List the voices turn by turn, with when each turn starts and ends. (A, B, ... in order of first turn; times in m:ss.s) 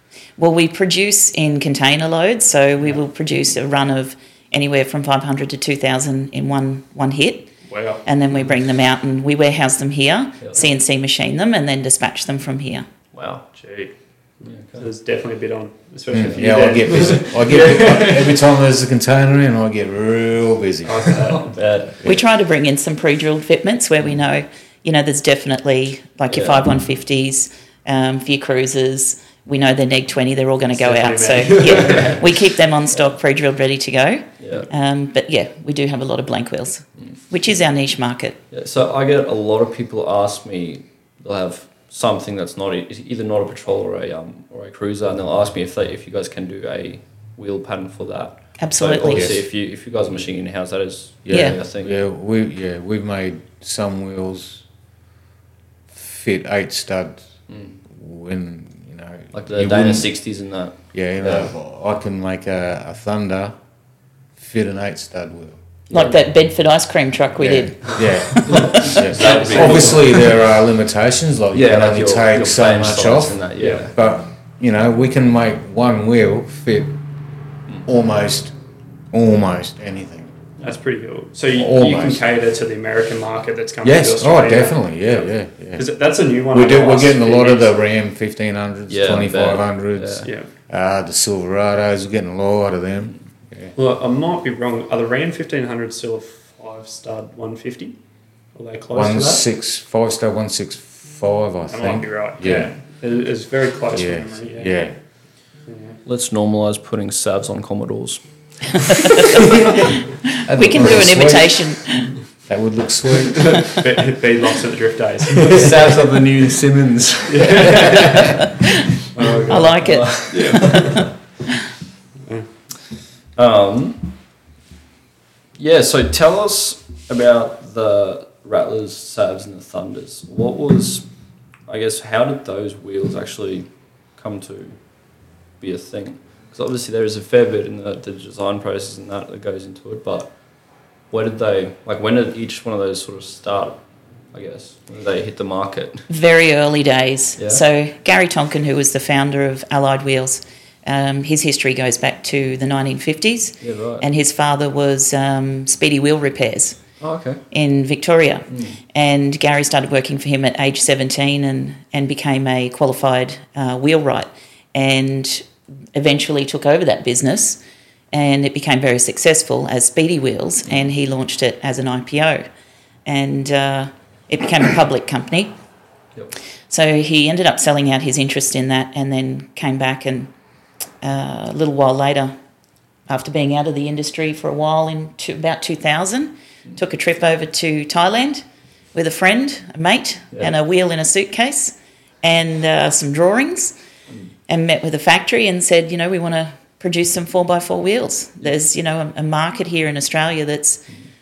0:00.4-0:12.9 A
0:07.7-0:08.0 B
0:10.4-0:10.7 C
0:13.1-0:13.5 C
0:13.6-0:18.1 B
0:14.4-0:14.9 C
0:16.1-0:21.4 D
0:17.0-0:18.4 C
0:20.8-0:21.6 B
0:21.4-0:22.1 C
0:22.0-0:38.4 A
0:26.3-0:26.7 C
0:30.7-0:32.3 B
0:31.6-0:32.3 C
0:34.4-0:34.7 C
0:38.5-0:52.0 C
0:48.6-0:49.3 A
0:49.1-0:49.4 D
0:51.3-0:54.6 D
0:51.3-0:51.6 A
0:55.9-0:57.2 D
0:57.5-0:57.8 C
0:57.9-1:00.1 D
0:59.3-1:01.5 C
1:00.9-1:03.5 D
1:04.4-1:05.6 D
1:05.9-1:06.3 C
1:05.9-1:08.9 A
1:07.4-1:17.0 D
1:08.5-1:10.0 B
1:08.7-1:10.3 C
1:11.5-1:13.9 C
1:13.6-1:13.9 B
1:17.9-1:18.5 D
1:19.1-1:20.3 D
1:20.6-1:27.7 B
1:21.6-1:22.2 D
1:23.8-1:25.9 D
1:26.5-1:33.7 D
1:28.9-1:30.3 C
1:30.2-1:30.5 B
1:33.8-1:38.0 B
1:38.6-1:39.4 B
1:38.9-1:42.8 D
1:41.7-1:44.8 B
1:43.9-1:45.0 D
1:45.7-1:46.0 B
1:46.1-1:48.2 C
1:48.7-1:49.6 C
1:49.2-1:49.9 A
1:50.4-1:52.1 A
1:50.5-1:51.8 D
1:52.5-1:53.8 D
1:53.4-1:55.8 B
1:55.4-1:58.5 C
1:57.3-1:58.4 B
1:58.2-1:58.9 A
1:59.1-1:59.7 B
1:59.2-2:01.1 C
1:59.5-2:00.9 A
2:00.3-2:01.1 B
2:03.4-2:04.2 C
2:05.6-2:11.0 C
2:11.7-2:14.8 C
2:15.6-2:20.3 C
2:21.1-2:26.1 C
2:26.1-2:36.8 A
2:27.4-2:27.6 C
2:33.6-2:34.1 C
2:37.0-2:37.4 C
2:37.5-2:47.6 A
2:38.5-2:38.8 C
2:48.1-2:52.5 A
2:53.1-2:55.5 A
2:56.7-3:00.3 A
3:01.0-3:02.4 A
3:03.1-3:13.7 A
3:14.5-3:20.8 A